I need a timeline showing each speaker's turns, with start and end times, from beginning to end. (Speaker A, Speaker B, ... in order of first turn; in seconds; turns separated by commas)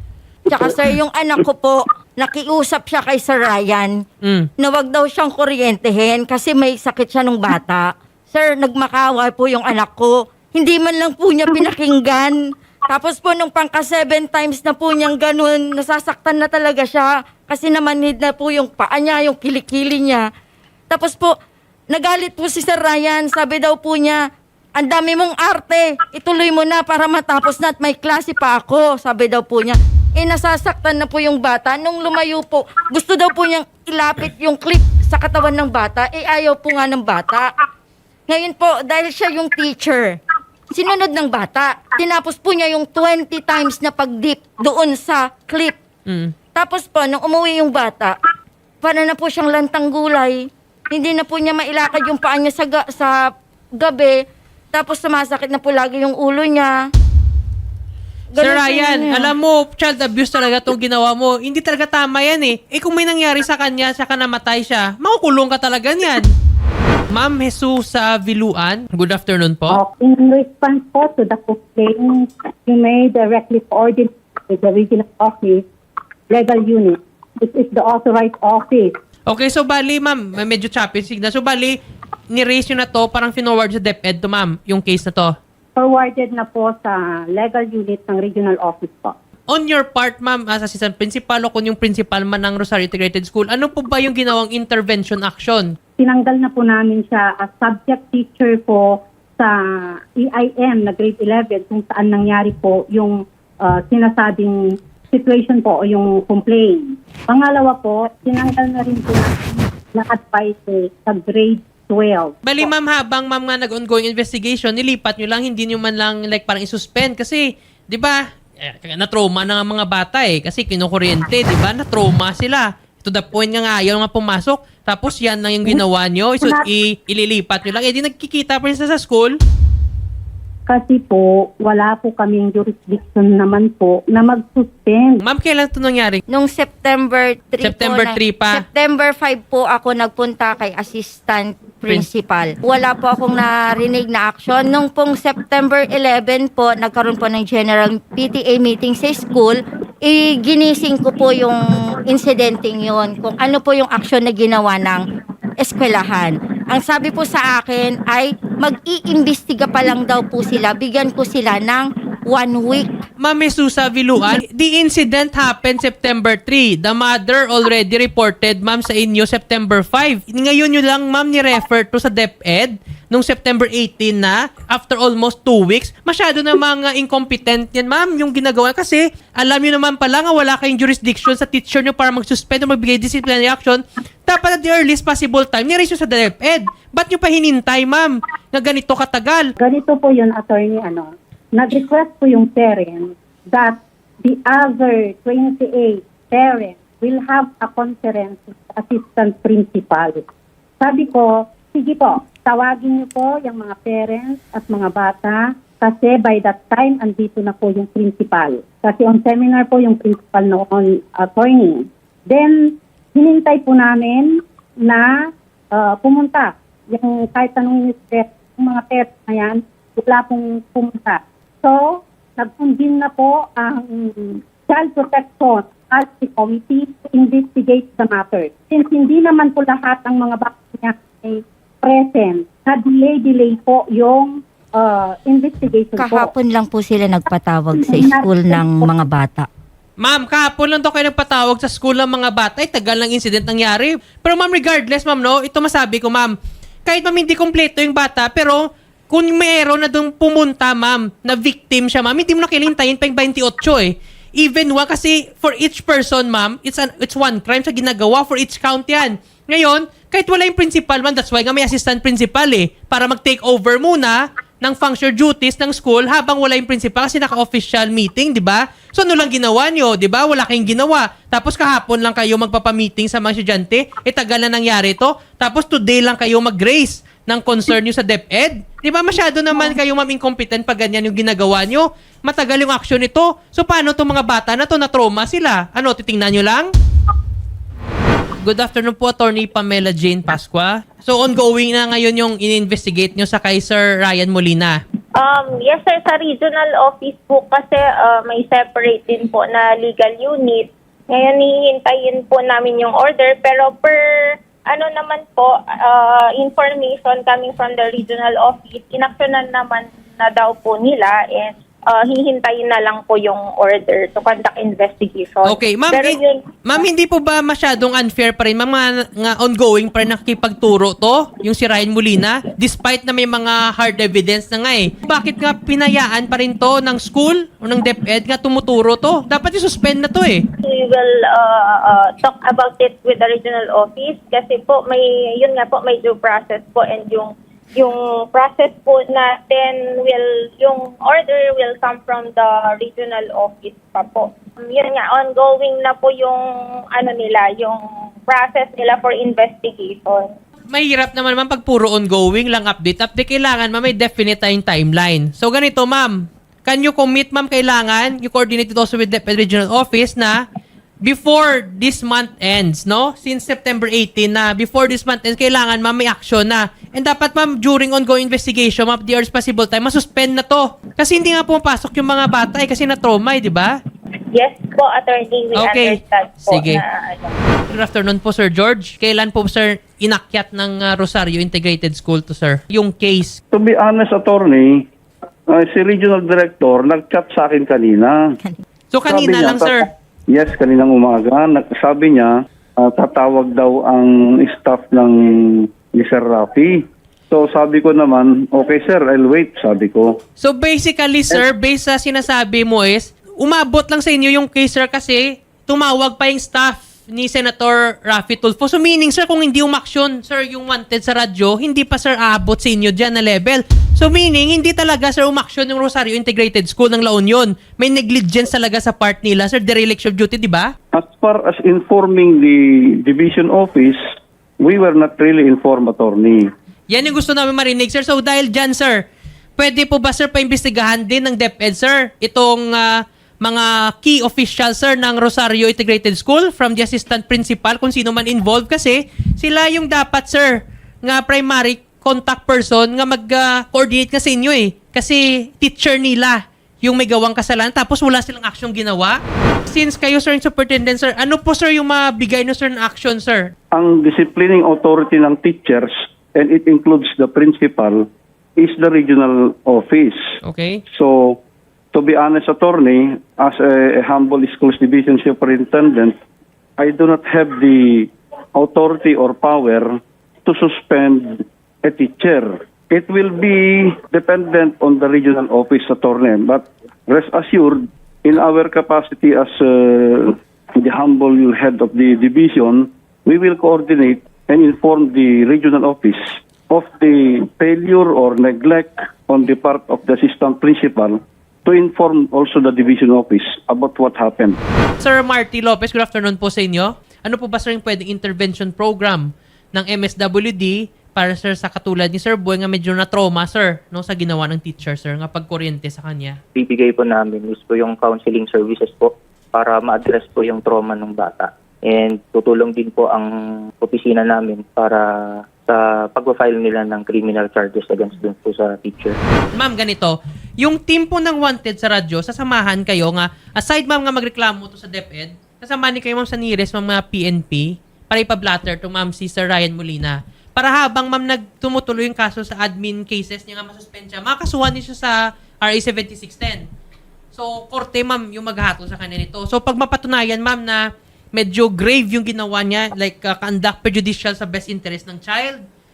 Speaker A: 0.5-4.0, Speaker B: 4.2-4.5, Speaker A: 4.6-20.3, Speaker A: 20.9-21.3, Speaker A: 21.9-24.2, Speaker A: 24.8-37.5, Speaker A: 38.3-45.8, Speaker B: 46.1-46.3, Speaker A: 46.5-48.2, Speaker A: 48.8-54.2, Speaker A: 54.7-56.8, Speaker A: 58.3-59.3, Speaker B: 58.4-66.3, Speaker B: 67.1-69.8, Speaker C: 69.7-75.6, Speaker C: 76.3-78.9, Speaker B: 79.3-81.8, Speaker B: 82.3-85.3, Speaker C: 85.8-89.2, Speaker B: 89.5-95.7, Speaker C: 96.0-104.6, Speaker C: 105.1-109.3, Speaker C: 110.0-112.4, Speaker B: 112.4-129.3, Speaker C: 130.7-135.2, Speaker B: 135.2-136.2, Speaker A: 136.3-155.0, Speaker B: 137.6-138.6, Speaker A: 155.6-163.0, Speaker B: 163.2-189.5, Speaker C: 189.6-200.2, Speaker C: 200.8-212.6, Speaker C: 213.1-214.3, Speaker C: 214.8-215.1, Speaker C: 215.7-236.3, Speaker A: 236.0-239.5, Speaker C: 237.8-238.8, Speaker B: 240.0-246.3, Speaker B: 246.9-286.7, Speaker B: 288.4-294.8, Speaker D: 295.2-304.0, Speaker D: 304.7-316.8, Speaker B: 315.4-330.4, Speaker D: 330.6-350.3, Speaker B: 350.7-360.4, Speaker B: 361.0-373.7, Speaker D: 374.3-377.4, Speaker B: 375.5-376.8, Speaker B: 377.7-383.4, Speaker E: 383.5-384.8, Speaker E: 385.5-388.2, Speaker B: 388.9-389.9, Speaker E: 389.1-400.2, Speaker B: 400.4-420.7, Speaker E: 420.9-424.0, Speaker E: 424.6-426.5, Speaker B: 426.9-429.0, Speaker B: 429.6-449.2, Speaker B: 449.7-453.5, Speaker E: 453.8-460.2, Speaker B: 460.4-460.8, Speaker E: 460.9-461.4, Speaker E: 461.9-466.1, Speaker E: 466.8-494.6, Speaker B: 495.0-506.4, Speaker F: 506.6-515.1, Speaker F: 515.6-519.1, Speaker B: 519.5-536.7, Speaker B: 537.3-540.8, Speaker B: 541.4-545.6